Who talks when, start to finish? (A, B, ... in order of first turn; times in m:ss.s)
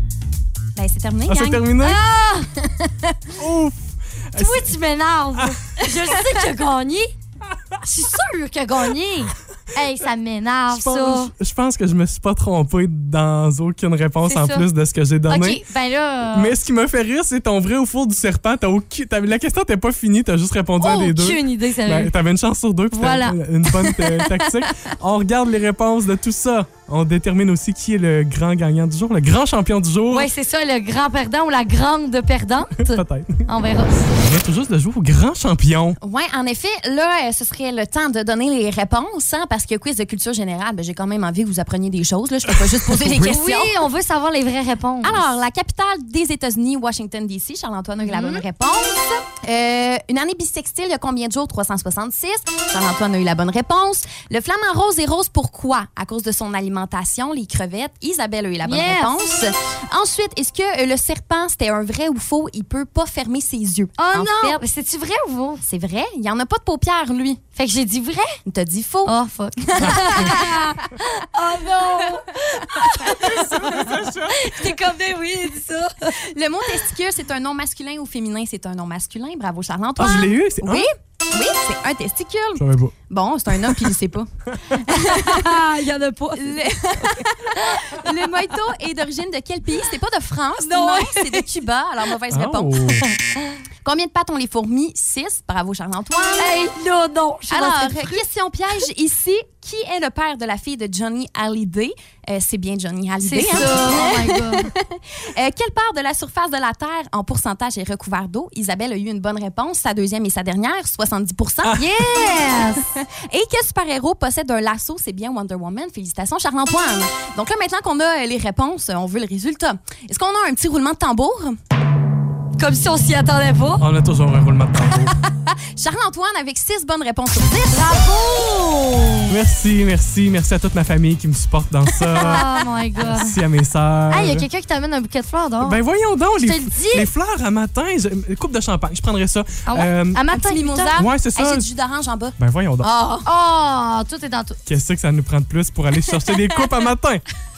0:00.8-0:01.8 A
0:01.3-0:02.0 B
0:01.8-0:02.5 C
0:03.4-0:04.7 B
0:04.4-0:07.1 C
0:07.8-0:11.3 C
0:10.7-0:15.6 B
0:14.3-0:14.7 C
0:15.3-0:16.6 C
0:16.3-0:30.3 B
0:20.8-0:22.1 C
0:22.9-0:24.2 C
0:30.1-0:34.0 C
0:32.8-0:36.0 B
0:36.0-0:43.8 A
0:42.9-0:45.4 C
0:45.0-1:04.6 A
0:48.0-0:48.4 C
0:58.6-0:59.2 C
1:04.0-1:05.6 C
1:05.6-1:07.4 A
1:07.6-1:08.4 C
1:08.4-1:10.8 A
1:09.0-1:16.2 C
1:11.8-1:13.0 A
1:13.1-1:14.6 B
1:16.2-1:24.3 A
1:20.0-1:20.9 B
1:22.5-1:22.9 B
1:24.8-1:25.7 A
1:24.8-1:26.6 C
1:26.4-1:32.9 A
1:27.2-1:28.1 C
1:30.6-1:31.4 C
1:32.3-1:33.0 B
1:33.0-1:33.5 C
1:33.8-1:36.5 A
1:36.4-1:38.2 C
1:37.5-1:51.8 A
1:43.2-1:44.7 C
1:51.7-1:52.8 C
1:52.9-2:01.6 A
2:02.6-2:03.8 C
2:03.8-2:05.1 B
2:05.0-2:08.2 A
2:07.6-2:09.3 C
2:09.3-2:12.4 B
2:12.2-2:13.4 C
2:13.0-2:14.5 B
2:14.1-2:15.8 C
2:15.6-2:20.2 B
2:16.4-2:17.1 C
2:19.7-2:21.0 C
2:20.3-2:23.3 A
2:21.0-2:21.7 B
2:22.4-2:22.9 B
2:23.2-2:24.6 C
2:24.6-2:27.2 B